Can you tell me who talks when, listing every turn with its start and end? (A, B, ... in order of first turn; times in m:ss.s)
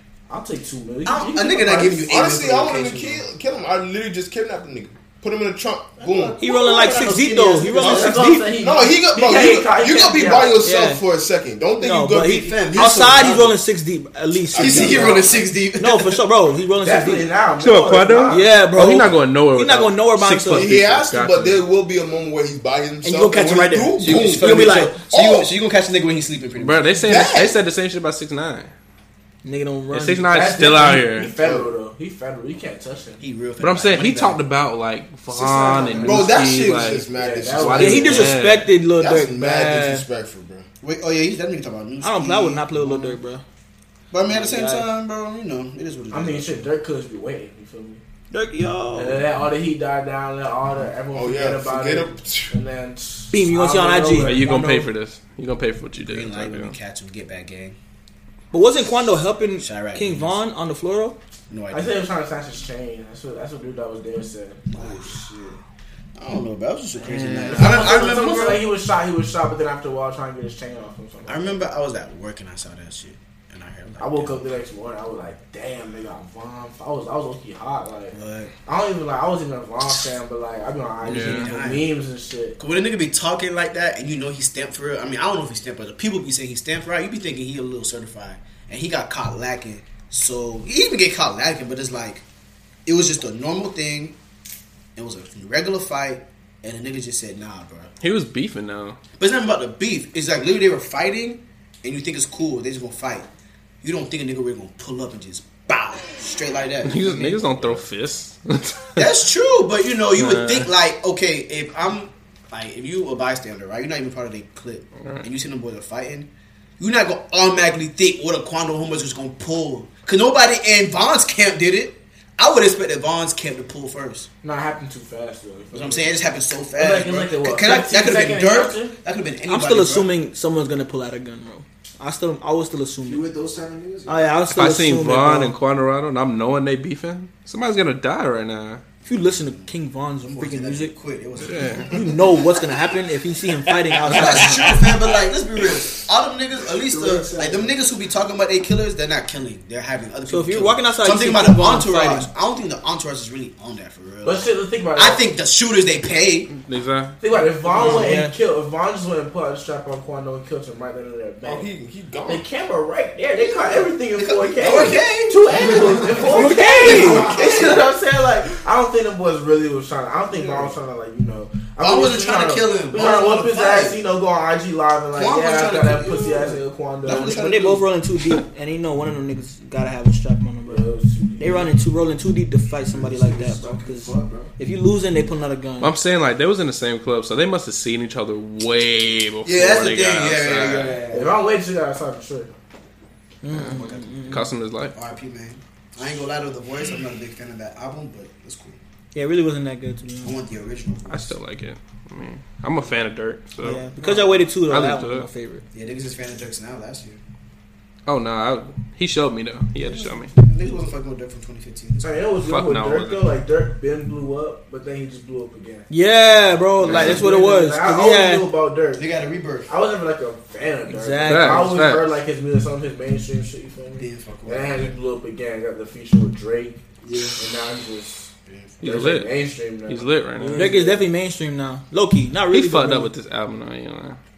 0:00.3-0:02.2 A
0:01.1-0:03.3 B
0:02.1-0:06.4 C
0:06.0-0:06.5 D
0:06.4-0:08.4 B
0:06.4-0:08.4 E
0:07.8-0:10.6 A
0:08.5-0:12.5 C
0:10.6-0:11.0 E
0:11.8-0:17.3 E
0:12.3-0:13.6 B
0:14.5-0:15.2 C
0:14.5-0:16.2 B
0:16.8-0:18.5 A
0:17.6-0:21.6 F
0:18.3-0:20.9 E
0:20.5-0:25.5 C
0:23.0-0:25.1 E
0:24.0-0:27.2 B
0:26.6-0:28.7 F
0:27.1-0:27.6 C
0:29.4-0:30.3 E
0:29.9-0:31.3 F
0:30.3-0:33.2 A
0:33.2-0:34.4 B
0:33.6-0:38.7 F
0:35.4-0:36.1 D
0:35.6-0:36.2 B
0:36.0-0:38.3 C
0:37.2-0:38.4 A
0:37.7-0:40.1 E
0:39.0-0:40.7 C
0:40.8-0:43.2 B
0:42.0-0:43.4 E
0:44.1-0:46.7 B
0:44.2-0:44.9 E
0:46.1-0:48.0 A
0:48.3-0:49.2 E
0:48.9-0:54.9 A
0:51.1-0:52.6 C
0:53.3-0:54.8 E
0:54.2-0:56.8 F
0:56.0-0:57.8 B
0:58.5-1:01.2 E
0:59.6-1:00.4 B
1:01.5-1:01.9 B
1:01.7-1:04.8 A
1:04.7-1:05.1 B
1:04.8-1:05.6 D
1:06.2-1:08.7 B
1:07.0-1:08.1 F
1:07.5-1:11.6 A
1:11.3-1:14.4 B
1:14.0-1:22.6 A
1:18.1-1:18.5 B
1:21.0-1:21.9 B
1:21.1-1:21.5 F
1:22.6-1:32.2 B
1:32.9-1:34.2 B
1:35.0-1:37.9 B
1:38.0-1:39.0 F
1:39.2-1:43.3 B
1:43.8-1:47.4 B
1:46.8-1:49.1 F
1:49.0-2:04.3 B
1:50.1-1:50.7 F
2:04.4-2:06.2 A
2:05.7-2:10.1 B
2:06.8-2:09.0 A
2:09.5-2:13.3 E
2:13.0-2:14.4 D
2:14.1-2:15.6 E
2:14.5-2:18.8 F
2:19.1-2:21.0 E
2:19.4-2:19.7 B
2:20.2-2:22.6 B
2:21.4-2:21.9 F
2:21.8-2:24.9 E
2:23.9-2:24.7 F
2:24.0-2:36.6 B
2:26.8-2:27.7 D
2:30.3-2:32.3 E
2:34.2-2:35.2 A
2:36.6-2:37.2 F
2:37.2-2:41.7 A
2:37.7-2:38.3 E
2:37.8-2:38.1 B
2:41.4-2:42.4 C
2:42.3-2:57.4 A
2:43.4-2:45.4 B
2:44.6-2:44.9 D
2:45.8-2:46.2 D
2:46.2-2:47.4 E
2:46.4-2:47.8 B
2:51.8-2:54.0 B
2:55.1-2:57.9 B
2:57.1-3:00.8 E
3:00.7-3:01.8 A
3:01.4-3:05.9 E
3:02.8-3:04.5 D
3:05.8-3:11.0 F
3:09.4-3:11.2 B
3:10.7-3:11.3 D
3:11.1-3:12.5 A
3:13.4-3:14.5 E
3:13.6-3:18.8 B
3:14.3-3:15.0 F
3:19.1-3:20.4 E
3:20.2-3:21.4 B
3:21.1-3:23.9 F
3:23.6-3:25.6 E
3:24.6-3:25.3 F
3:25.7-3:27.2 B
3:28.1-3:30.3 F
3:29.8-3:32.3 B
3:32.0-3:35.9 A
3:32.4-3:33.3 F
3:35.9-3:38.5 E
3:36.8-3:39.1 A
3:36.9-3:37.2 B
3:38.9-3:39.7 B
3:39.7-3:46.8 A
3:40.9-3:41.8 E
3:41.3-3:42.2 F
3:44.0-3:44.9 B
3:47.0-3:47.4 B
3:47.4-3:51.1 A
3:48.5-3:48.8 B
3:48.8-3:50.8 F
3:50.5-3:53.1 E
3:52.5-3:54.2 F